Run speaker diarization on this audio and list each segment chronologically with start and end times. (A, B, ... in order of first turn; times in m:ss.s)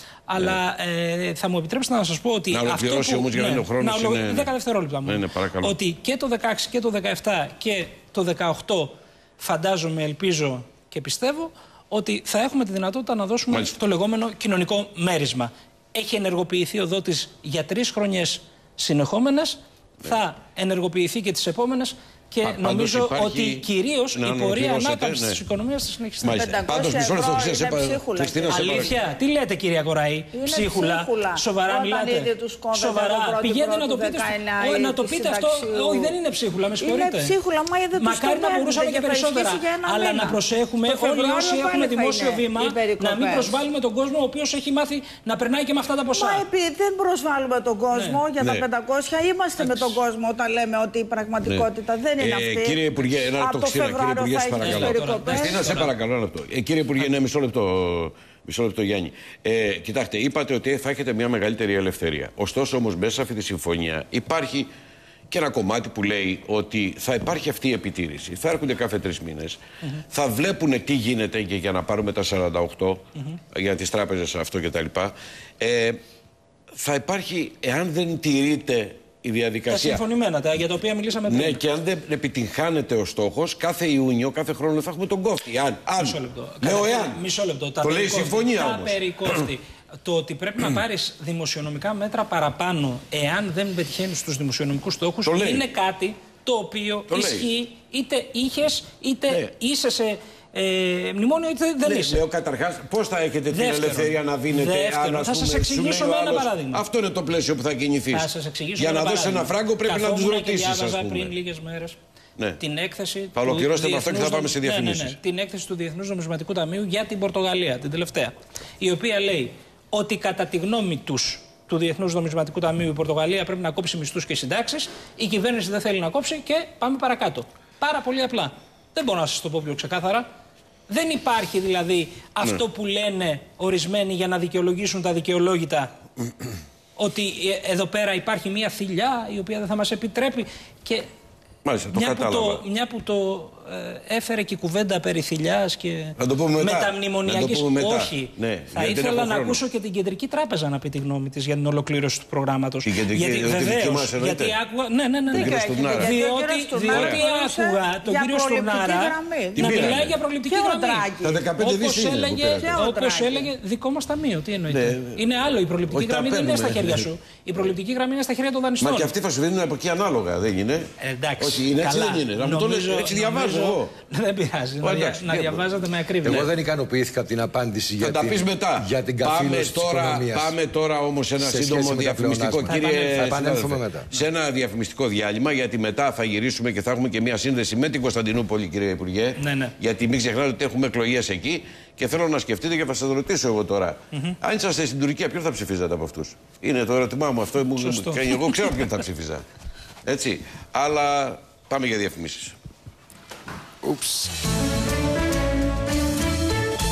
0:00.3-0:26.5 A
0:02.5-0:04.5 B
0:05.0-0:05.8 B
0:22.4-0:25.4 B
0:26.2-0:28.9 B
0:26.3-0:29.0 C
0:28.5-0:37.3 A
0:30.3-0:36.1 C
0:36.8-0:43.6 C
0:38.0-0:46.4 A
0:46.1-0:52.8 C
0:47.9-0:48.2 A
0:48.4-0:48.7 B
0:49.6-0:50.0 A
0:52.2-1:04.7 B
0:53.4-0:55.8 C
0:54.6-0:55.9 A
1:05.3-1:09.6 B
1:10.1-1:16.0 B
1:16.7-1:20.0 B
1:19.7-1:21.6 A
1:21.3-1:27.2 B
1:26.0-1:42.2 A
1:27.8-1:29.4 B
1:35.2-1:35.7 B
1:37.1-1:37.5 B
1:41.8-1:51.3 B
1:43.5-1:46.8 A
1:48.1-1:52.0 A
1:52.6-2:10.3 A
1:53.3-1:55.2 B
2:10.9-2:15.9 A
2:17.0-2:21.1 A
2:21.6-2:22.6 B
2:21.9-2:41.1 A
2:26.2-2:29.6 B
2:32.8-2:34.6 B
2:35.3-2:36.2 B
2:35.3-2:41.4 C
2:36.9-2:37.2 B
2:39.6-2:40.2 B
2:41.2-2:42.9 B
2:41.6-2:49.1 A
2:42.6-2:43.5 C
2:44.7-2:45.2 B
2:45.9-2:47.1 B
2:48.8-2:53.9 B
2:51.0-2:56.5 A
2:54.8-2:55.6 B
2:56.2-3:00.5 D
2:58.0-3:19.4 B
3:01.4-3:04.1 D
3:02.7-3:03.4 A
3:09.4-3:09.7 A
3:17.8-3:18.8 A
3:20.1-3:22.6 B
3:23.8-3:24.3 D